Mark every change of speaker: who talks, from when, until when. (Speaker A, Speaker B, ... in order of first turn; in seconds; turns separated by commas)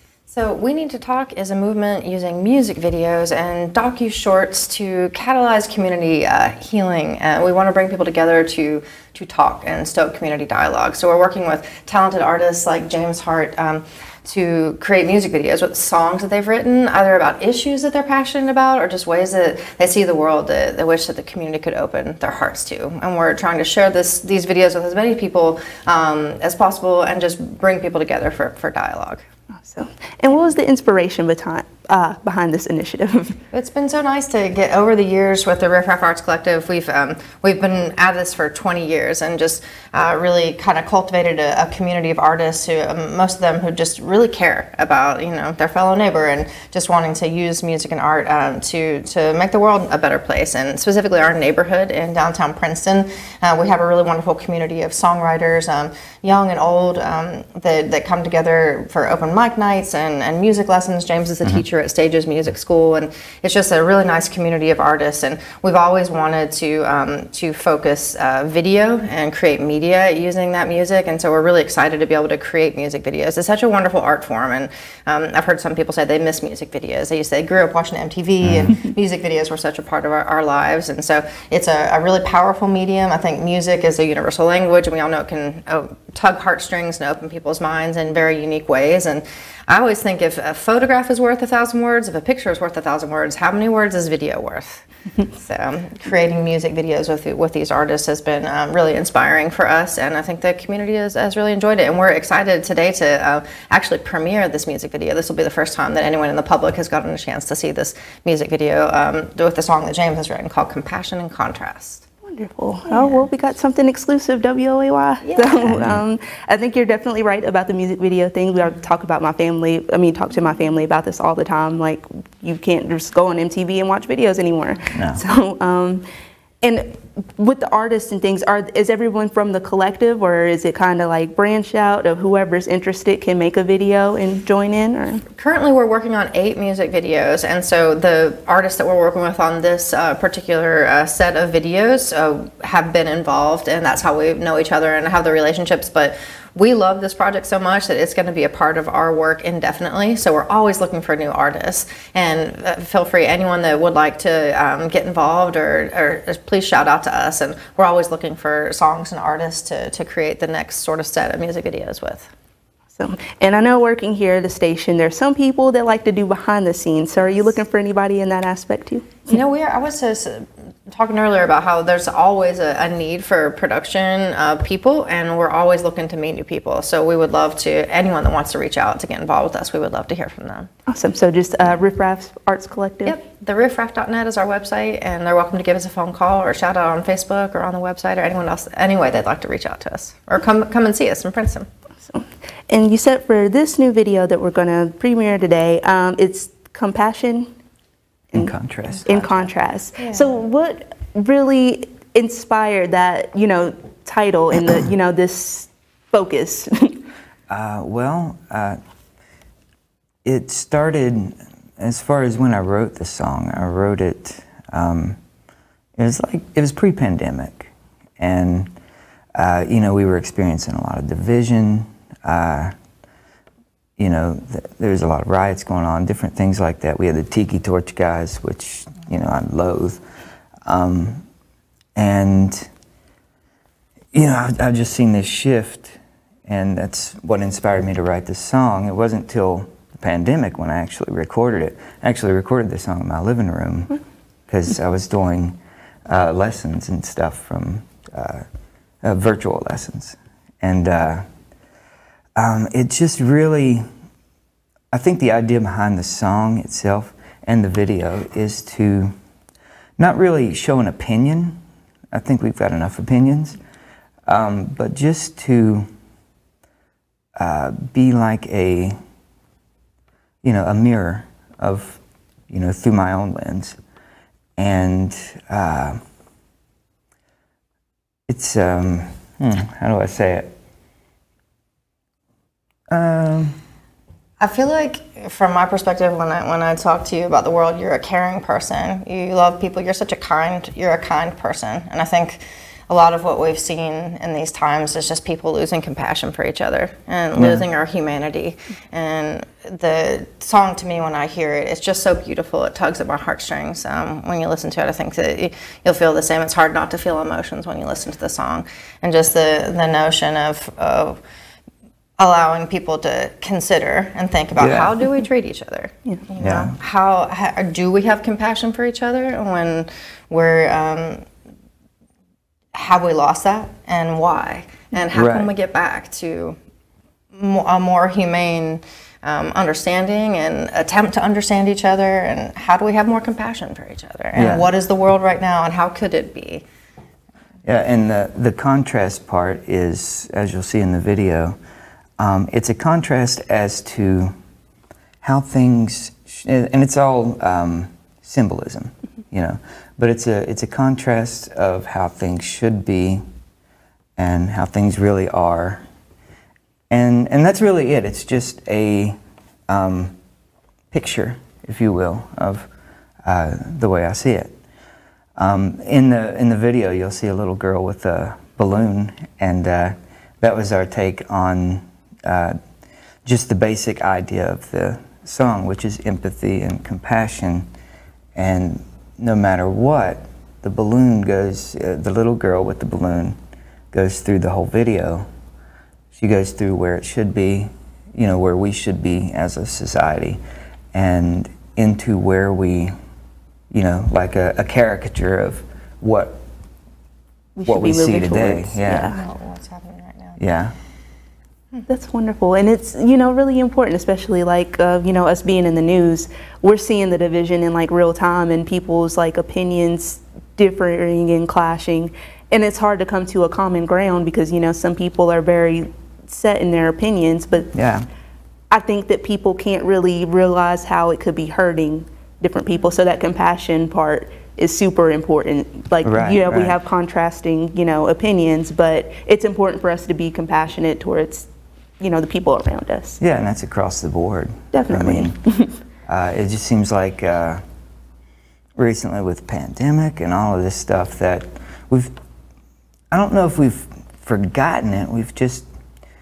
Speaker A: 0.3-29.2, Speaker B: 29.6-33.4, Speaker A: 33.5-112.0, Speaker C: 78.4-78.7, Speaker B: 112.2-126.0, Speaker A: 112.9-113.3, Speaker A: 115.2-115.7, Speaker C: 115.7-116.0, Speaker C: 124.9-125.2, Speaker B: 126.6-135.2, Speaker A: 135.3-162.3, Speaker B: 163.0-169.3, Speaker A: 169.3-180.7, Speaker B: 180.9-183.2, Speaker A: 183.1-191.7, Speaker B: 192.1-197.5, Speaker C: 198.3-199.5, Speaker B: 199.1-207.0, Speaker A: 200.0-200.4, Speaker C: 207.5-208.8, Speaker C: 210.2-215.2, Speaker C: 216.0-218.7, Speaker C: 219.3-222.8, Speaker C: 224.0-230.0, Speaker C: 230.7-231.3, Speaker C: 231.9-232.7, Speaker C: 234.1-248.4, Speaker C: 249.0-251.3, Speaker C: 252.4-253.9, Speaker C: 254.9-259.1, Speaker C: 260.0-261.6, Speaker C: 262.1-263.6, Speaker C: 264.3-265.9, Speaker C: 267.4-269.0, Speaker C: 270.4-273.8, Speaker C: 274.6-276.0, Speaker C: 278.3-280.5, Speaker C: 282.9-283.6, Speaker A: 284.4-311.2, Speaker C: 297.3-297.7, Speaker A: 312.2-321.3, Speaker C: 314.6-314.9, Speaker C: 316.4-316.8, Speaker A: 322.7-326.6, Speaker C: 325.1-325.5, Speaker A: 327.4-336.6, Speaker C: 334.4-334.7, Speaker C: 337.6-341.6, Speaker C: 342.2-344.3, Speaker C: 345.2-353.2, Speaker C: 354.2-355.8, Speaker C: 356.9-359.2, Speaker C: 359.7-360.2, Speaker C: 360.9-362.7, Speaker C: 363.2-364.6, Speaker C: 365.4-372.6, Speaker C: 373.2-377.7, Speaker C: 378.4-383.4, Speaker C: 383.9-385.3, Speaker C: 386.1-390.4, Speaker C: 390.9-393.0, Speaker C: 393.7-396.4, Speaker B: 397.6-399.2, Speaker C: 397.6-399.1, Speaker A: 399.1-400.4, Speaker C: 400.4-400.8, Speaker B: 401.9-417.7, Speaker C: 417.7-418.1, Speaker B: 418.7-431.5, Speaker C: 426.0-426.8, Speaker B: 432.0-433.2, Speaker C: 433.2-435.4, Speaker B: 434.7-435.8, Speaker C: 436.1-437.6, Speaker C: 438.8-442.1, Speaker C: 443.1-445.7